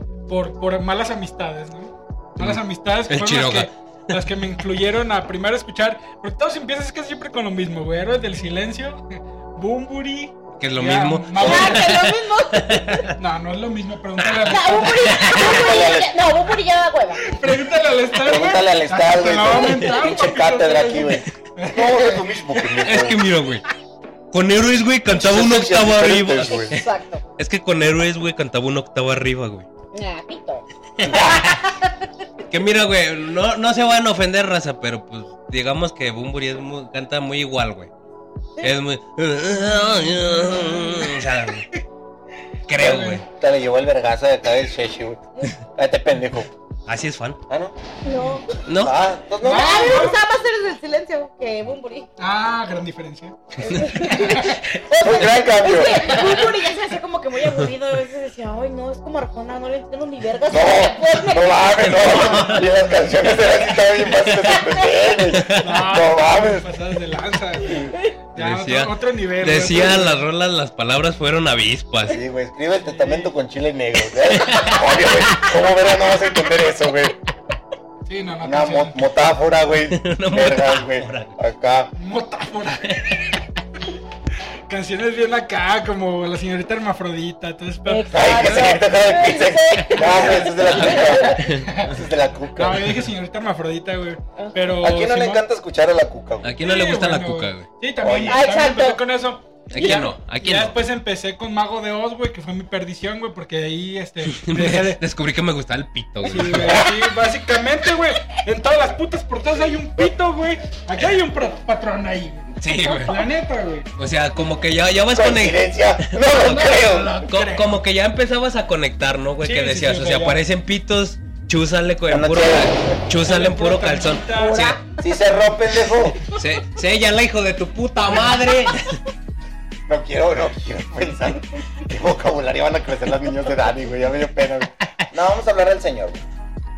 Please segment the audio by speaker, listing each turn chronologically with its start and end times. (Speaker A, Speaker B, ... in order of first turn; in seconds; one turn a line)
Speaker A: 0.3-12.0
Speaker B: 2.4-3.7
Speaker B: 10.6-13.2
Speaker C: 11.4-13.1
Speaker D: 11.4-11.7
Speaker A: 13.1-15.2
Speaker B: 14.2-15.8
Speaker C: 14.4-17.3
Speaker D: 15.3-16.2
Speaker A: 17.2-22.4
Speaker D: 18.2-23.2
Speaker B: 22.8-23.6
Speaker B: 24.3-29.7
Speaker D: 25.1-26.8
Speaker C: 26.4-27.2
Speaker C: 29.9-31.9
Speaker B: 31.0-31.6
Speaker D: 31.1-31.4
Speaker B: 32.5-37.9
Speaker B: 38.6-41.7
Speaker A: 39.7-41.8
Speaker B: 42.7-43.2
Speaker A: 42.8-43.2
Speaker D: 43.3-46.5
Speaker B: 46.9-47.4
Speaker D: 47.5-47.7
Speaker C: 48.0-48.5
Speaker B: 48.6-49.0
Speaker D: 48.7-50.1
Speaker A: 49.4-50.2
Speaker C: 49.4-52.1
Speaker A: 52.2-54.6
Speaker C: 53.6-62.4
Speaker B: 53.7-54.3
Speaker D: 55.0-56.2
Speaker B: 57.4-57.7
Speaker D: 60.5-66.7
Speaker B: 61.7-62.7
Speaker B: 64.1-64.5
Speaker C: 64.4-64.8
Speaker B: 65.3-65.9
Speaker A: 65.5-70.2
Speaker D: 67.6-67.9
Speaker B: 68.3-72.2
Speaker D: 72.1-77.2
Speaker A: 72.8-73.3
Speaker B: 74.3-75.1
Speaker A: 78.0-79.1
Speaker D: 78.4-81.9
Speaker B: 79.9-81.3
Speaker A: 81.9-83.2
Speaker B: 82.9-83.2
Speaker A: 84.7-88.8
Speaker C: 87.8-91.5
Speaker D: 88.1-93.0
Speaker B: 90.6-91.9
Speaker A: 91.5-95.4
Speaker D: 94.8-96.6
Speaker B: 96.4-97.7
Speaker A: 96.6-105.0
Speaker D: 98.0-98.4
Speaker C: 98.3-99.0
Speaker B: 99.7-100.8
Speaker B: 104.3-106.9
Speaker A: 106.2-113.9
Speaker B: 112.5-113.3
Speaker B: 114.0-124.8
Speaker D: 115.1-117.2
Speaker A: 116.7-117.8
Speaker A: 119.4-120.4
Speaker D: 122.1-123.0
Speaker A: 123.1-124.7
Speaker C: 124.3-124.8
Speaker D: 125.0-126.2
Speaker B: 126.3-129.0
Speaker D: 129.9-136.2